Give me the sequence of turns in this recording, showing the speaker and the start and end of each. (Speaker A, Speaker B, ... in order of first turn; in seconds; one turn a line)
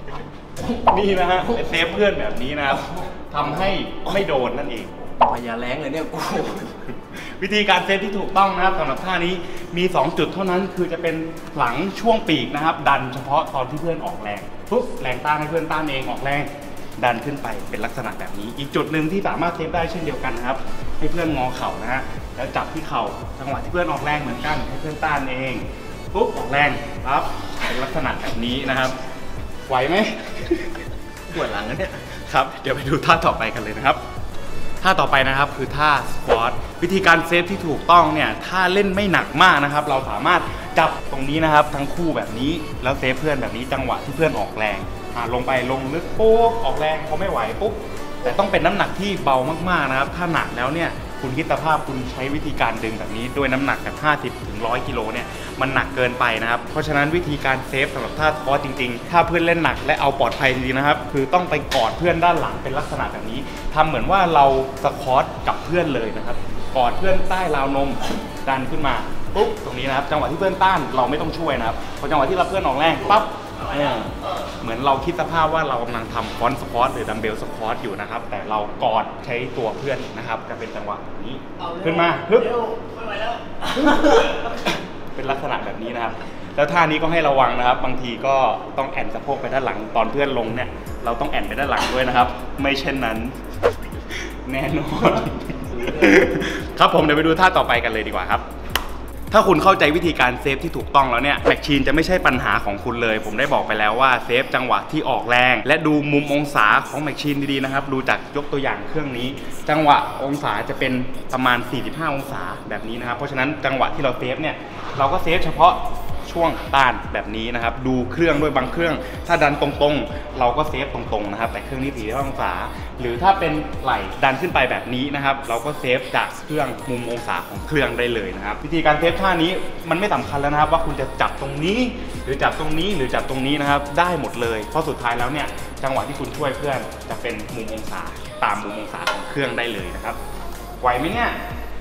Speaker A: 0.6-5.2
Speaker B: 5.1-6.9
Speaker A: 7.0-29.0
Speaker A: 29.7-30.8
Speaker B: 31.3-32.1
Speaker A: 32.1-34.0
Speaker A: 34.8-82.7
Speaker B: 82.5-83.4
Speaker A: 83.7-93.4
Speaker A: 94.1-98.5
Speaker A: 99.3-140.2
Speaker A: 140.8-141.4